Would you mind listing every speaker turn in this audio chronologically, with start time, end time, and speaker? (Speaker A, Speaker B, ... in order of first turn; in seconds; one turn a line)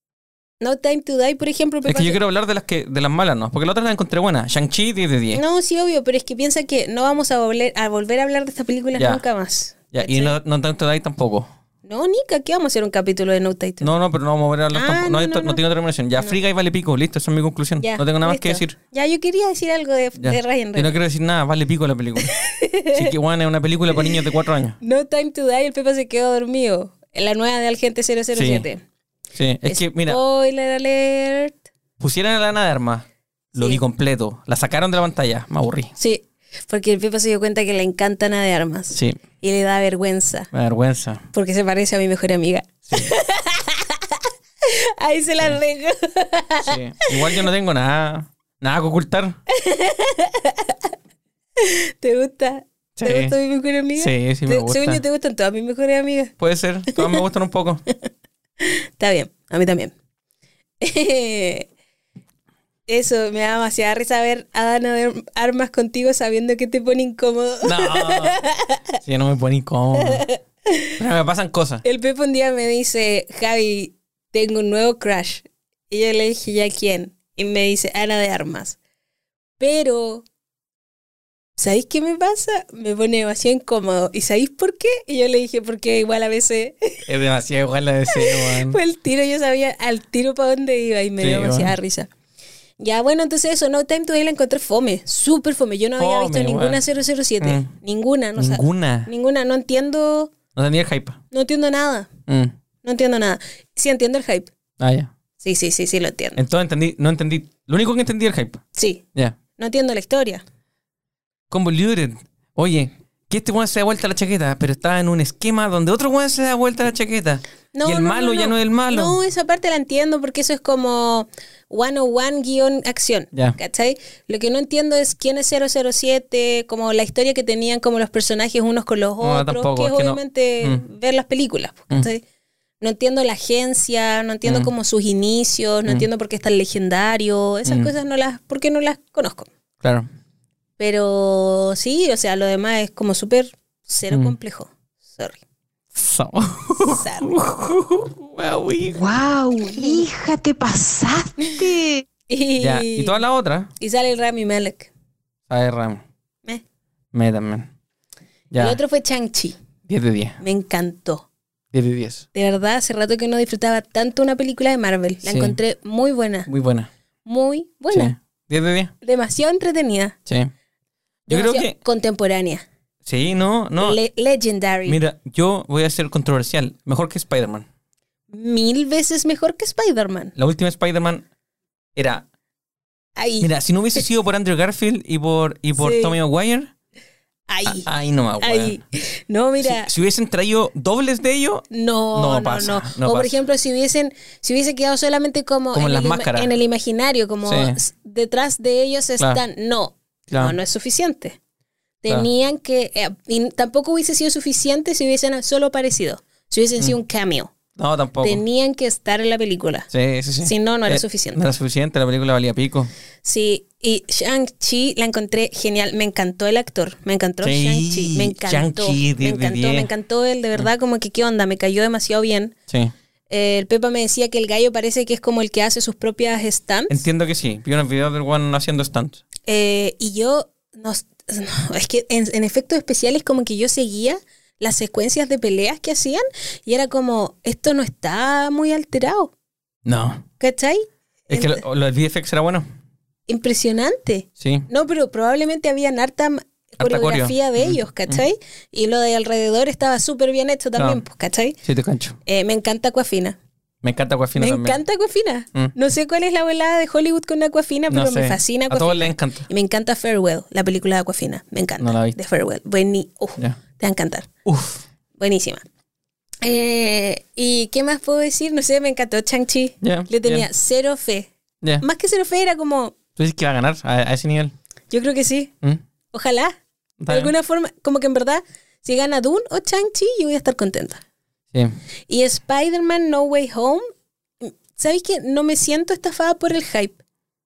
Speaker A: 0.6-2.2
Speaker B: 1.9-5.4
Speaker A: 5.3-10.3
Speaker B: 8.9-9.2
Speaker B: 9.9-11.5
Speaker A: 11.8-13.9
Speaker B: 13.8-18.8
Speaker A: 14.7-15.6
Speaker A: 17.8-20.9
Speaker B: 20.2-22.3
Speaker A: 22.2-23.1
Speaker B: 22.9-24.8
Speaker A: 23.9-28.8
Speaker B: 28.3-28.6
Speaker B: 29.3-30.2
Speaker A: 29.6-31.6
Speaker B: 32.0-35.9
Speaker A: 36.0-40.5
Speaker B: 38.9-39.2
Speaker B: 40.5-41.3
Speaker A: 41.3-47.5
Speaker B: 46.6-49.4
Speaker A: 49.5-50.8
Speaker A: 51.6-56.3
Speaker B: 53.0-53.3
Speaker B: 54.0-55.0
Speaker B: 56.4-57.8
Speaker A: 56.9-57.2
Speaker A: 58.6-59.9
Speaker A: 60.8-61.7
Speaker A: 62.9-69.0
Speaker B: 67.6-68.4
Speaker B: 69.0-70.2
Speaker A: 70.0-71.0
Speaker B: 71.0-71.8
Speaker A: 71.8-78.8
Speaker A: 79.6-80.2
Speaker A: 81.6-87.1
Speaker B: 87.0-88.8
Speaker A: 88.1-92.1
Speaker B: 91.2-91.7
Speaker A: 92.8-100.3
Speaker B: 96.0-96.8
Speaker B: 97.4-97.7
Speaker B: 98.4-99.1
Speaker B: 100.5-101.2
Speaker A: 101.3-102.1
Speaker B: 102.3-102.5
Speaker A: 102.8-104.5
Speaker B: 104.8-105.1
Speaker A: 105.4-106.4
Speaker B: 106.3-108.6
Speaker A: 108.7-109.0
Speaker A: 109.6-110.4
Speaker B: 111.5-119.2
Speaker A: 117.7-132.2
Speaker B: 129.2-130.8
Speaker A: 132.8-139.5
Speaker B: 134.4-134.7
Speaker B: 137.6-137.9
Speaker B: 139.8-140.1
Speaker A: 140.8-145.4
Speaker B: 144.1-144.3
Speaker B: 145.9-149.0
Speaker A: 146.8-147.4
Speaker C: 148.9-152.0
Speaker A: 152.3-153.2
Speaker B: 152.6-153.7
Speaker A: 153.8-154.9
Speaker B: 155.5-156.0
Speaker B: 157.1-157.7
Speaker B: 158.5-158.8
Speaker A: 158.6-159.6
Speaker B: 159.9-160.4
Speaker A: 160.4-161.2
Speaker B: 161.7-162.2
Speaker A: 162.3-166.5
Speaker B: 165.2-165.6
Speaker B: 166.5-166.9
Speaker A: 167.2-168.1
Speaker B: 167.9-168.9
Speaker A: 169.0-170.2
Speaker B: 170.2-170.5
Speaker B: 171.3-171.8
Speaker A: 171.3-172.7
Speaker B: 173.0-174.0
Speaker A: 173.8-175.0
Speaker B: 174.8-177.7
Speaker A: 178.3-180.3
Speaker B: 180.3-181.2
Speaker B: 181.9-182.2
Speaker A: 183.2-183.5
Speaker B: 183.4-186.7
Speaker A: 185.8-186.2
Speaker A: 187.5-187.9
Speaker B: 187.7-188.8
Speaker A: 188.4-189.9
Speaker B: 189.6-193.3
Speaker A: 191.7-201.4
Speaker B: 195.7-196.5
Speaker B: 197.4-197.8
Speaker B: 200.3-200.6
Speaker A: 202.0-207.5
Speaker B: 207.8-208.4
Speaker A: 208.2-209.9
Speaker B: 209.9-212.9
Speaker A: 210.4-211.4
Speaker A: 213.2-222.5
Speaker B: 217.4-219.9
Speaker A: 223.3-227.0
Speaker B: 226.9-229.2
Speaker A: 229.5-239.3
Speaker B: 239.8-240.2
Speaker A: 240.4-241.6
Speaker B: 241.3-242.7
Speaker A: 243.3-251.6
Speaker B: 244.4-244.7
Speaker B: 246.8-248.2
Speaker B: 251.6-252.2
Speaker A: 252.2-253.4
Speaker B: 253.8-254.8
Speaker A: 254.3-264.3
Speaker B: 257.9-259.5
Speaker B: 261.8-262.2
Speaker B: 264.4-264.8
Speaker A: 265.2-265.6
Speaker A: 266.4-273.0
Speaker B: 269.8-270.5
Speaker B: 273.1-274.5
Speaker A: 274.9-275.5
Speaker A: 276.1-276.6
Speaker B: 277.0-277.3
Speaker A: 277.1-281.0
Speaker A: 282.1-283.8
Speaker A: 284.4-287.0